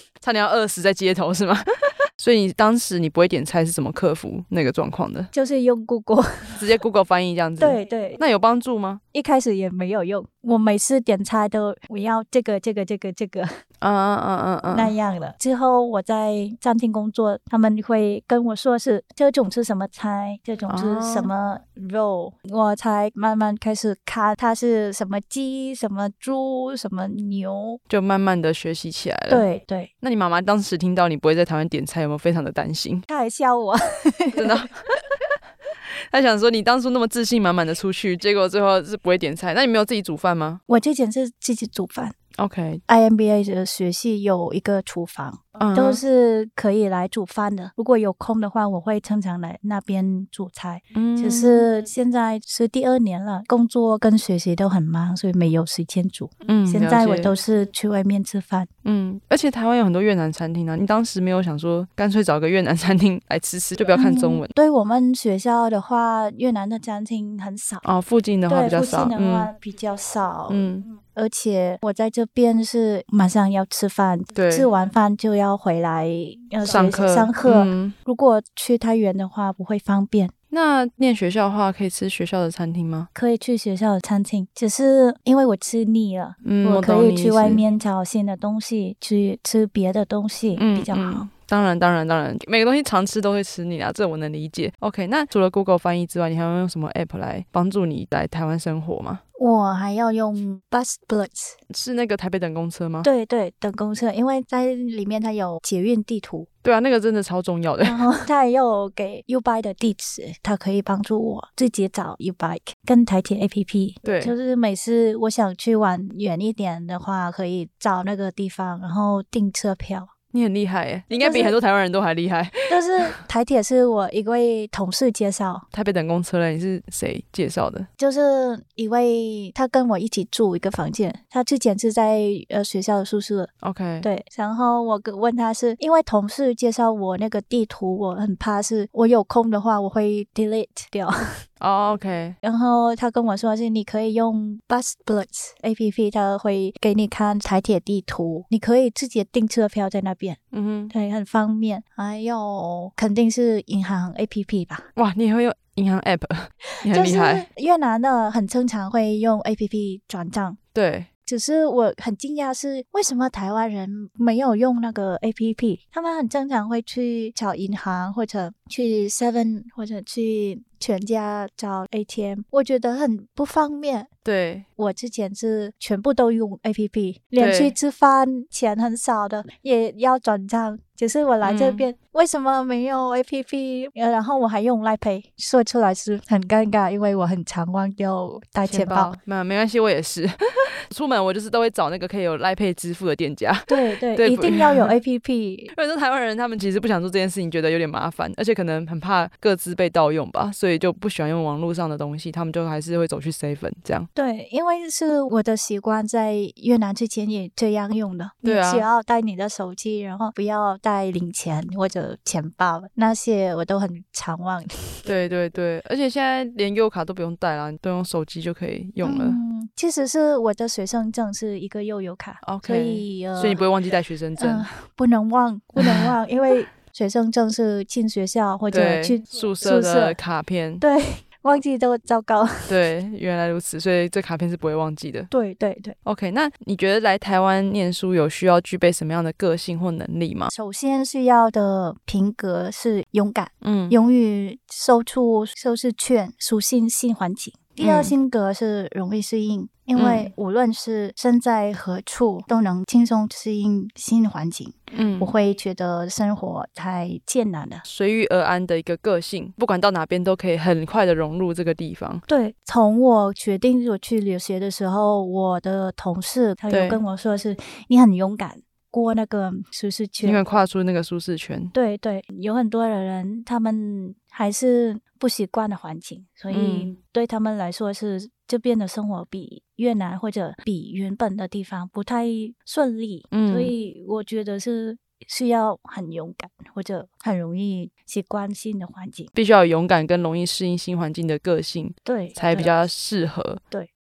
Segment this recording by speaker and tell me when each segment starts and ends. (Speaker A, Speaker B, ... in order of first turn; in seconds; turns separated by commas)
Speaker A: 0.2-1.6, Speaker A: 2.2-5.3, Speaker B: 5.3-6.5, Speaker A: 6.6-9.0, Speaker B: 7.6-8.2, Speaker B: 9.1-13.5, Speaker A: 13.8-14.9, Speaker B: 14.7-27.8, Speaker A: 20.7-21.3, Speaker A: 27.9-29.5, Speaker B: 29.3-29.9, Speaker A: 30.0-33.0, Speaker B: 33.1-34.7, Speaker A: 34.4-34.8, Speaker A: 36.1-40.6, Speaker B: 40.7-42.2, Speaker A: 42.4-42.8, Speaker B: 42.9-58.7, Speaker A: 45.6-46.0, Speaker A: 50.9-51.7, Speaker A: 56.4-57.3, Speaker A: 58.9-64.5, Speaker B: 63.9-67.8, Speaker A: 67.8-69.5, Speaker B: 68.5-80.3, Speaker A: 70.5-70.9, Speaker A: 74.3-74.7, Speaker A: 76.6-78.0, Speaker A: 80.5-83.1, Speaker B: 83.2-91.3, Speaker A: 86.4-87.6, Speaker A: 90.5-99.2, Speaker B: 99.4-101.6, Speaker A: 101.7-103.1, Speaker B: 103.0-106.5, Speaker A: 106.6-108.0, Speaker B: 107.8-120.1, Speaker A: 114.0-114.3, Speaker A: 120.3-123.2, Speaker B: 121.1-121.6, Speaker B: 122.7-125.7, Speaker A: 125.7-127.9, Speaker B: 128.0-141.2, Speaker A: 133.6-134.1, Speaker A: 141.6-142.4, Speaker B: 142.4-150.4, Speaker A: 150.5-150.9, Speaker B: 150.9-154.9, Speaker A: 155.0-157.5, Speaker B: 156.9-160.6, Speaker A: 160.7-161.1, Speaker B: 161.3-174.1, Speaker A: 174.2-174.7, Speaker B: 174.8-189.1, Speaker A: 177.4-177.7, Speaker A: 181.4-181.8, Speaker A: 188.7-190.3, Speaker A: 190.9-194.9, Speaker B: 193.7-195.7, Speaker A: 195.7-204.1, Speaker B: 204.1-215.1, Speaker A: 208.4-208.9, Speaker A: 215.1-219.4, Speaker B: 219.0-223.7, Speaker A: 222.4-224.7, Speaker B: 224.4-230.2, Speaker A: 225.8-226.1, Speaker A: 228.7-230.8, Speaker B: 230.8-232.8, Speaker A: 232.7-235.3, Speaker B: 235.3-236.0, Speaker A: 236.1-240.5, Speaker B: 240.5-257.9, Speaker A: 243.6-244.0, Speaker A: 247.8-248.1, Speaker A: 250.0-250.3, Speaker A: 254.9-255.3, Speaker A: 257.9-262.2, Speaker B: 262.3-270.4, Speaker A: 266.7-267.0, Speaker A: 270.2-271.7, Speaker B: 271.7-289.3, Speaker A: 276.5-276.9, Speaker A: 283.3-283.7, Speaker A: 289.4-293.6, Speaker B: 292.1-292.8